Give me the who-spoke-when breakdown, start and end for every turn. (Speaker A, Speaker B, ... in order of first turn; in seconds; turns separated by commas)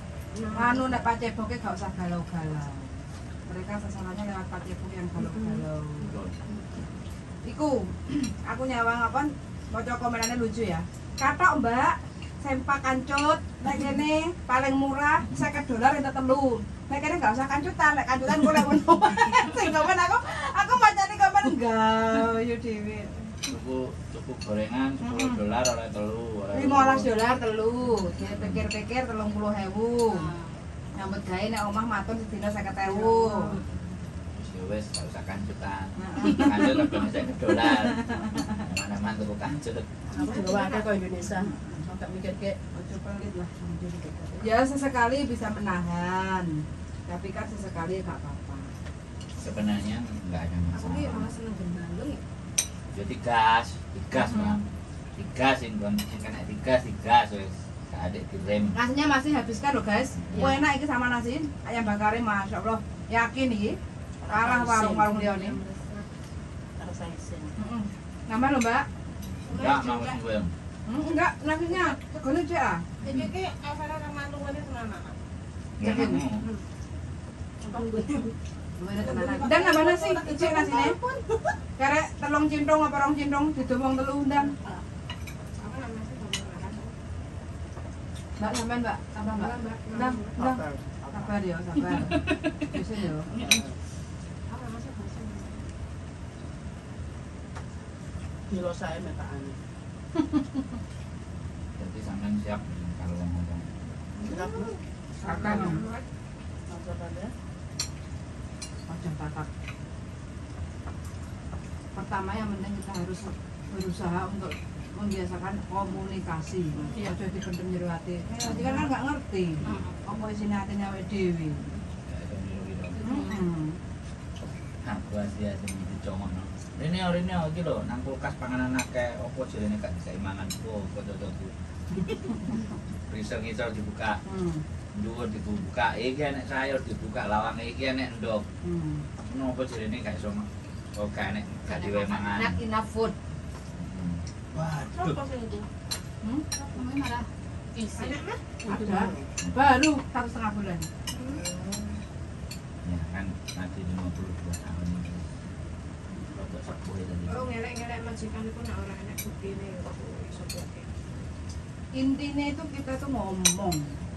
Speaker A: 0.3-1.1, Speaker B: 0.5-2.9, Speaker B: 3.5-6.1, Speaker A: 5.2-6.8, Speaker C: 6.0-6.3, Speaker B: 7.4-23.3, Speaker C: 23.4-27.1, Speaker B: 25.0-25.4, Speaker B: 26.5-30.3, Speaker C: 28.2-28.6, Speaker D: 30.1-30.6, Speaker B: 30.9-33.6, Speaker E: 32.8-33.6, Speaker C: 34.3-39.9, Speaker B: 36.0-36.9, Speaker B: 37.7-38.6, Speaker E: 40.1-42.6, Speaker A: 40.1-41.1, Speaker B: 41.3-41.8, Speaker B: 42.7-48.7, Speaker C: 49.4-51.3, Speaker A: 50.7-52.2, Speaker C: 52.9-54.6, Speaker B: 54.1-54.6, Speaker C: 55.1-58.8, Speaker B: 58.7-63.8, Speaker D: 60.3-60.7, Speaker E: 64.2-65.2, Speaker B: 64.3-65.6, Speaker D: 65.1-65.9, Speaker E: 66.8-67.5, Speaker B: 67.6-68.8, Speaker A: 69.4-70.2, Speaker C: 69.4-70.5, Speaker B: 70.9-72.8, Speaker A: 71.7-72.0, Speaker C: 73.0-73.3, Speaker A: 73.0-75.2, Speaker C: 75.8-76.5, Speaker B: 75.8-76.3, Speaker A: 77.7-78.2, Speaker D: 77.7-78.2, Speaker B: 78.8-81.0, Speaker A: 79.0-81.5, Speaker B: 81.8-84.5, Speaker A: 85.6-86.9, Speaker B: 88.4-93.3, Speaker A: 89.2-90.3, Speaker E: 90.3-91.3, Speaker D: 92.0-92.7, Speaker E: 93.3-93.7, Speaker A: 94.5-95.6, Speaker E: 98.5-99.6, Speaker C: 101.8-103.7, Speaker A: 104.2-106.0, Speaker E: 104.2-104.8, Speaker B: 105.2-105.8, Speaker E: 106.7-107.3, Speaker B: 108.9-109.5, Speaker B: 111.9-121.7, Speaker C: 118.5-118.9, Speaker C: 119.6-119.9, Speaker D: 119.6-120.0, Speaker C: 122.1-123.0, Speaker D: 123.0-123.5, Speaker B: 123.0-123.8, Speaker C: 124.8-132.4, Speaker C: 133.1-134.2, Speaker B: 134.2-134.6, Speaker C: 134.9-138.4, Speaker B: 138.6-139.0, Speaker C: 139.2-142.6, Speaker D: 141.7-142.3, Speaker B: 142.1-143.1, Speaker C: 143.8-145.2, Speaker E: 144.9-145.7, Speaker D: 146.7-148.2, Speaker A: 147.9-148.4, Speaker E: 148.6-149.3, Speaker B: 148.7-150.9, Speaker A: 151.1-151.5, Speaker E: 151.4-151.8, Speaker C: 152.8-155.3, Speaker C: 156.3-157.5, Speaker A: 157.3-160.9, Speaker B: 161.9-164.0